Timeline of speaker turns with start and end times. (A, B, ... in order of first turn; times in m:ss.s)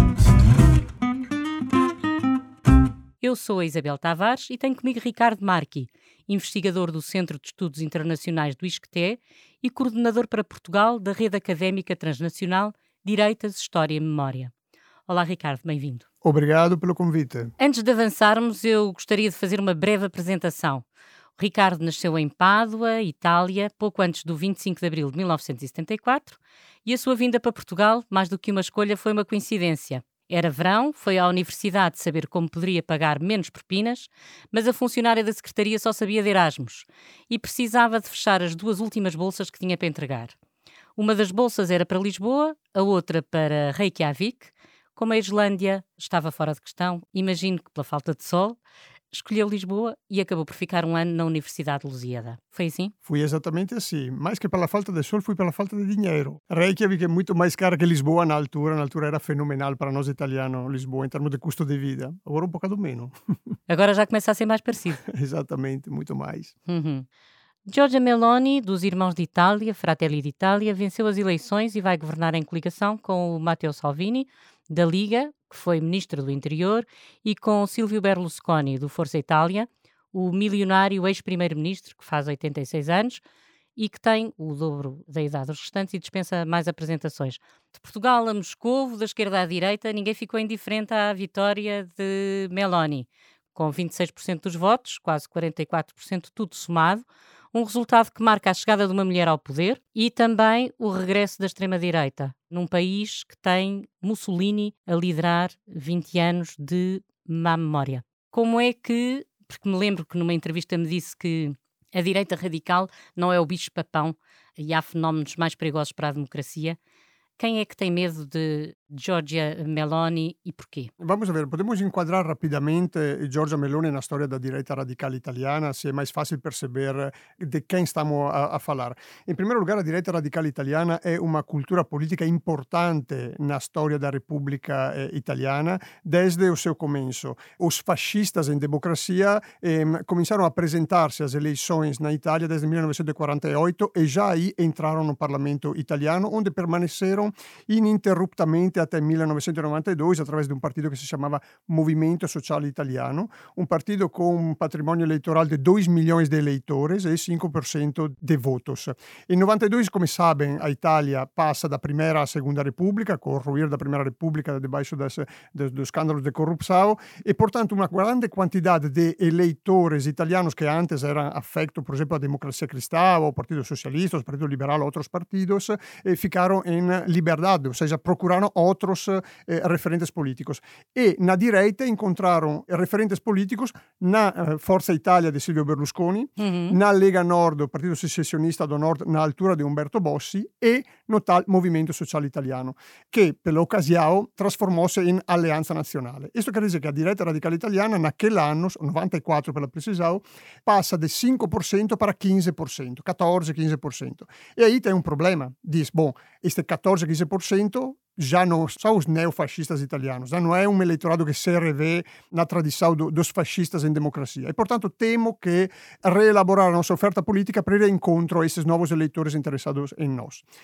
0:03.2-0:14.5 A
0:15.1-0:16.0 A
0:16.2-0:17.5 B
0:17.6-0:20.8 A
0:21.4-0:40.3 A
0:41.0-0:48.6 A
0:49.1-0:52.9 A
0:53.0-1:03.1 B
1:03.7-1:05.0 A
1:05.0-1:06.5 B
1:06.7-1:07.1 A
1:07.6-1:23.2 A
1:23.8-1:56.8 A
1:57.4-2:00.9 A
2:01.0-3:40.4 B
3:06.4-3:06.8 A